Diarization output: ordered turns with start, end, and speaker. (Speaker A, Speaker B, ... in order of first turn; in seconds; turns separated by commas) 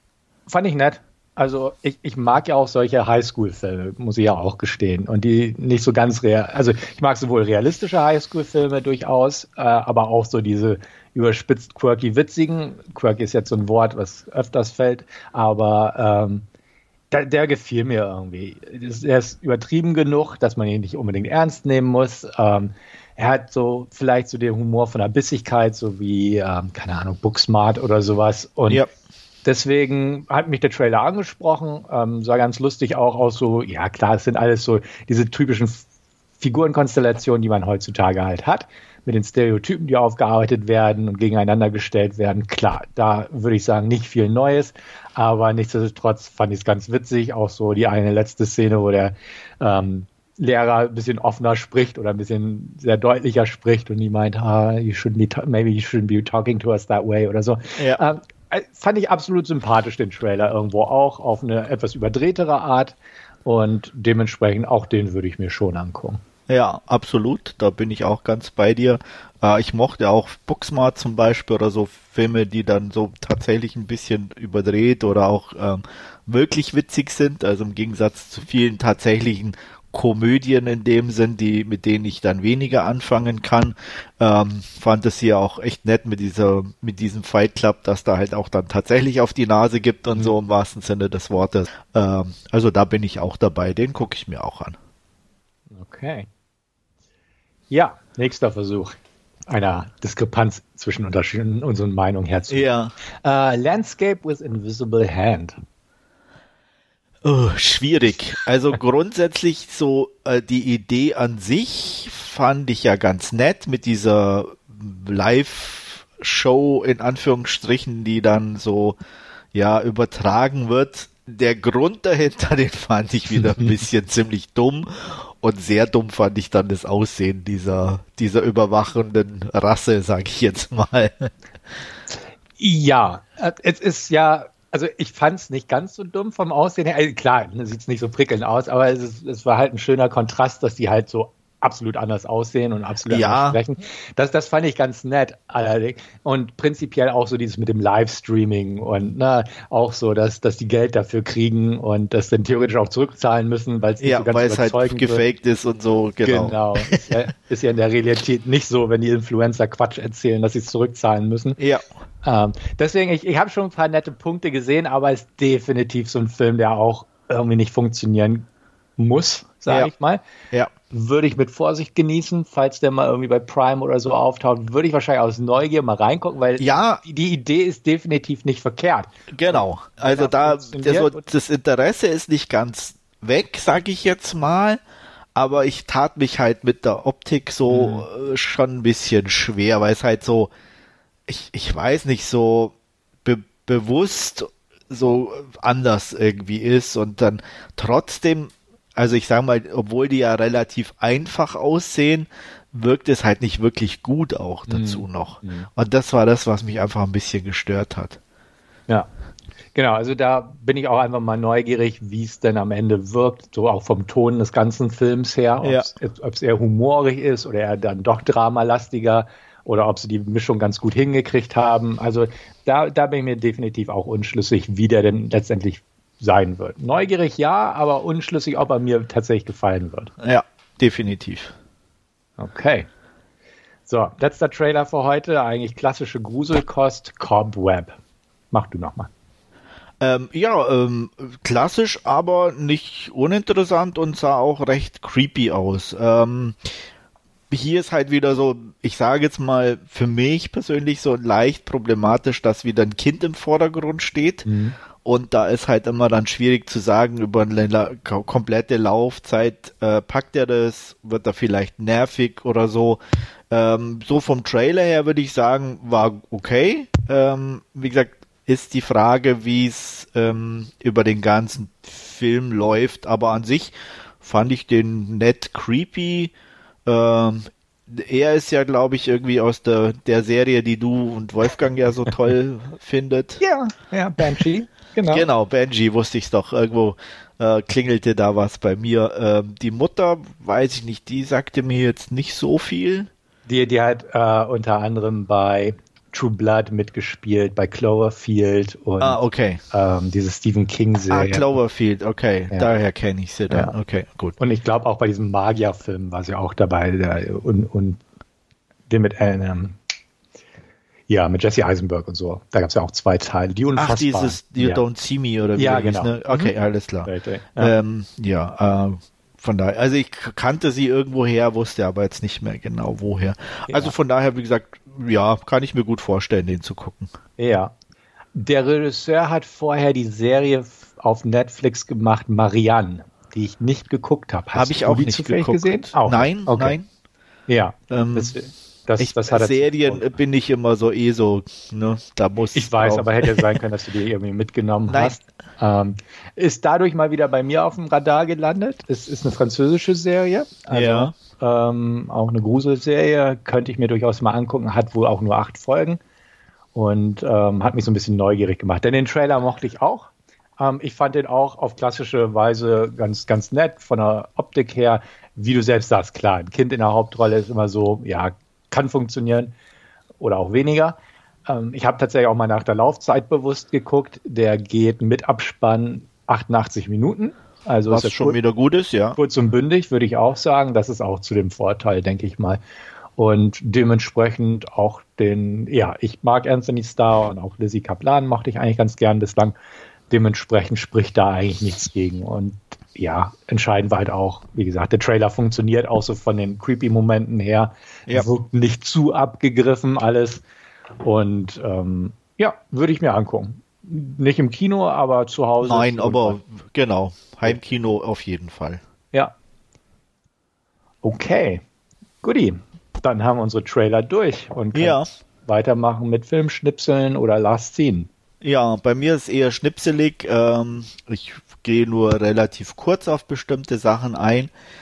Speaker A: 0.5-16.4, Speaker A: 17.1-28.8, Speaker A: 29.4-35.9, Speaker A: 36.4-66.2, Speaker B: 66.5-94.8, Speaker A: 95.8-96.3, Speaker A: 97.7-99.0, Speaker A: 99.5-102.7, Speaker B: 102.5-102.9, Speaker A: 103.2-105.5, Speaker B: 107.2-119.0, Speaker B: 119.5-131.3, Speaker A: 132.6-155.2, Speaker B: 143.1-143.6, Speaker B: 154.0-157.1, Speaker A: 156.2-161.6, Speaker B: 161.6-161.8, Speaker A: 162.2-168.4, Speaker A: 169.0-170.2, Speaker A: 170.9-181.3, Speaker B: 176.6-177.0, Speaker B: 179.3-184.8, Speaker B: 185.3-190.5, Speaker A: 187.7-188.1, Speaker B: 191.3-208.2, Speaker A: 204.7-205.7, Speaker A: 209.8-230.1, Speaker B: 215.6-215.9, Speaker B: 230.2-231.5, Speaker A: 232.4-232.9, Speaker A: 233.9-238.0, Speaker A: 238.5-239.1, Speaker B: 240.0-246.7, Speaker B: 247.5-254.5, Speaker A: 254.4-254.8, Speaker B: 255.0-276.3, Speaker B: 276.9-283.4, Speaker A: 283.4-285.2, Speaker B: 285.1-293.1, Speaker A: 293.5-299.2, Speaker B: 299.0-299.6, Speaker A: 299.7-301.5, Speaker B: 301.1-304.4, Speaker A: 304.4-308.0, Speaker A: 308.9-309.8, Speaker A: 311.1-314.8, Speaker B: 313.8-327.1, Speaker A: 315.6-316.5, Speaker A: 317.0-317.7, Speaker A: 323.7-323.9, Speaker A: 327.4-327.7, Speaker A: 328.4-336.8, Speaker B: 334.5-336.9, Speaker A: 337.5-340.1, Speaker B: 337.9-338.3, Speaker B: 339.0-343.4, Speaker A: 342.6-356.0, Speaker B: 344.9-345.2, Speaker B: 350.7-351.1, Speaker A: 356.7-369.5, Speaker A: 370.2-371.0, Speaker A: 371.5-378.4, Speaker B: 377.9-379.2, Speaker A: 379.2-382.6, Speaker A: 383.2-389.6, Speaker A: 390.1-400.4, Speaker A: 401.0-406.4, Speaker B: 405.6-408.8, Speaker A: 411.0-411.6, Speaker A: 412.2-418.1, Speaker B: 414.7-415.1, Speaker B: 418.4-424.5